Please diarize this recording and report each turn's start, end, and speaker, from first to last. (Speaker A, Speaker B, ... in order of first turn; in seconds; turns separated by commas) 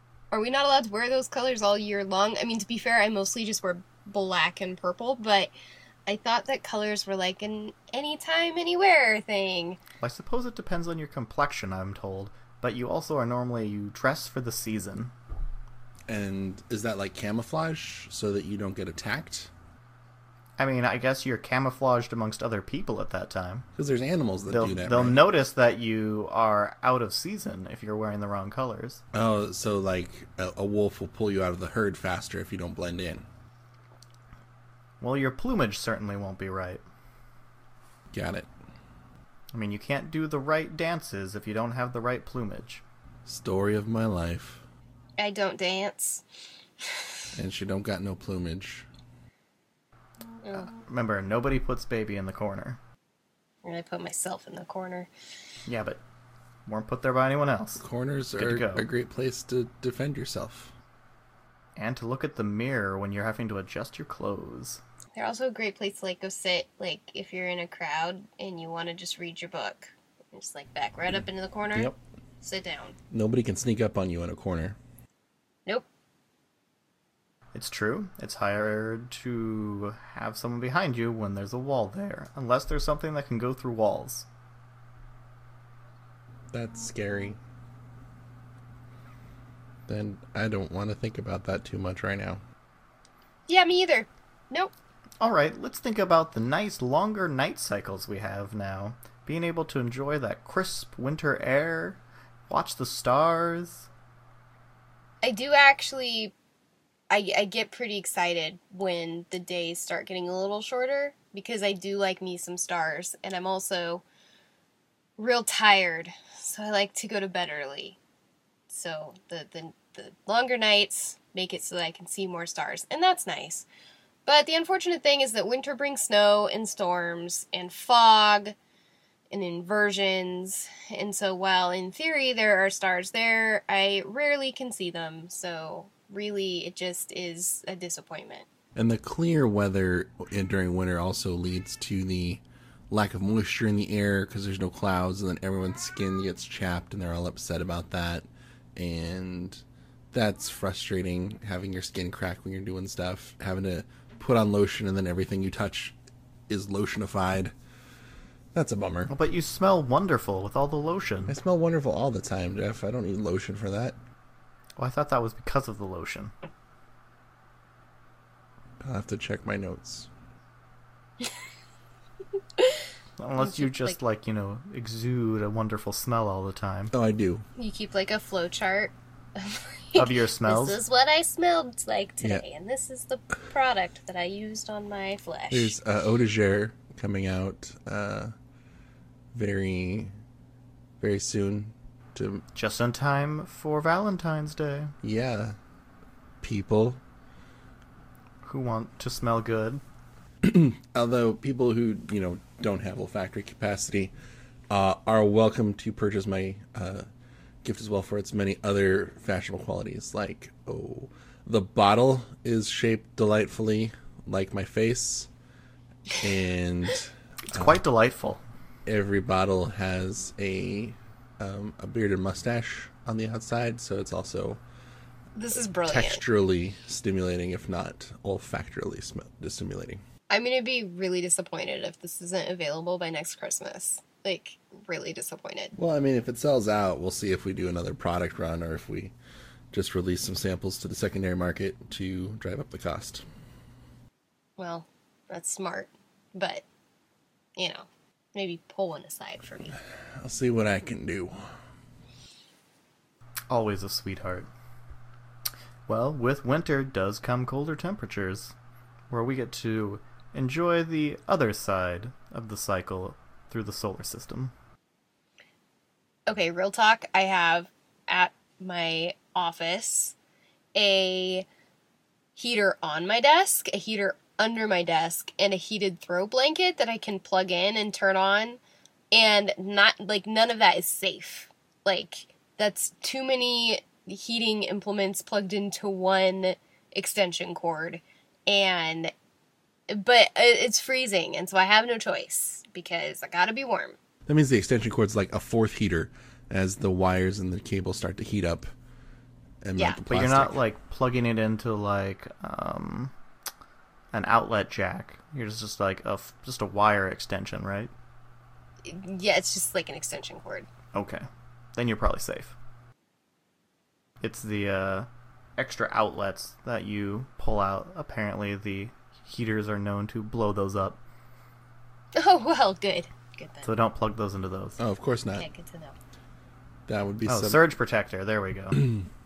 Speaker A: 0.3-5.5, Speaker A: 6.1-9.8, Speaker B: 10.0-15.1, Speaker C: 16.1-19.5, Speaker B: 20.6-23.7, Speaker C: 23.8-25.2, Speaker B: 24.5-29.0, Speaker C: 29.1-33.3, Speaker B: 35.0-36.9, Speaker C: 38.1-38.5, Speaker B: 39.5-42.8, Speaker C: 43.3-44.6, Speaker A: 45.2-46.2, Speaker C: 47.4-48.9, Speaker A: 50.4-50.7, Speaker B: 50.5-52.8, Speaker A: 53.6-55.1, Speaker B: 55.7-56.0, Speaker B: 56.7-57.8, Speaker C: 57.8-60.7, Speaker B: 58.4-58.9, Speaker B: 61.8-64.8, Speaker A: 65.2-73.0, Speaker C: 73.1-74.8, Speaker B: 77.5-84.3, Speaker C: 86.5-87.4, Speaker C: 89.9-92.4, Speaker A: 93.5-94.7, Speaker B: 95.2-103.9, Speaker A: 105.2-106.3, Speaker A: 107.1-114.0, Speaker A: 115.2-118.0, Speaker A: 118.7-123.7, Speaker A: 124.3-128.6, Speaker A: 129.3-138.5, Speaker C: 138.8-156.0, Speaker C: 156.5-157.5, Speaker C: 158.5-159.1, Speaker B: 159.1-161.4, Speaker C: 161.3-164.0, Speaker B: 164.8-166.3, Speaker C: 168.8-170.1, Speaker B: 173.2-176.9, Speaker A: 173.4-174.0, Speaker C: 176.9-177.4, Speaker A: 177.6-185.7, Speaker B: 180.0-180.8, Speaker C: 185.5-188.3, Speaker C: 189.3-190.1, Speaker C: 191.0-192.4, Speaker B: 192.6-194.9, Speaker C: 195.0-195.6, Speaker C: 196.4-197.0, Speaker B: 198.4-199.8, Speaker C: 200.4-204.1, Speaker C: 204.7-207.1, Speaker C: 207.6-215.3, Speaker C: 216.2-217.8, Speaker B: 217.5-218.4, Speaker C: 218.8-224.6, Speaker A: 225.3-226.2, Speaker C: 225.9-230.0, Speaker A: 230.3-235.7, Speaker C: 235.8-239.1, Speaker C: 239.7-243.2, Speaker A: 244.6-246.6, Speaker A: 247.6-249.8, Speaker C: 250.2-251.4, Speaker B: 253.5-254.5, Speaker B: 255.9-258.6, Speaker B: 259.1-264.5, Speaker A: 266.3-270.1, Speaker A: 270.8-271.5, Speaker A: 272.4-278.6, Speaker A: 279.1-289.1, Speaker A: 289.9-294.0, Speaker C: 294.3-298.7, Speaker C: 299.6-300.6, Speaker A: 299.8-300.0, Speaker B: 300.1-303.1, Speaker B: 304.1-307.9, Speaker A: 308.9-310.7, Speaker B: 310.9-311.2, Speaker B: 311.8-312.6, Speaker B: 314.2-321.0, Speaker A: 322.1-323.7, Speaker B: 323.6-324.8, Speaker C: 324.8-325.5, Speaker A: 325.3-325.9, Speaker C: 326.9-327.7, Speaker B: 327.3-329.0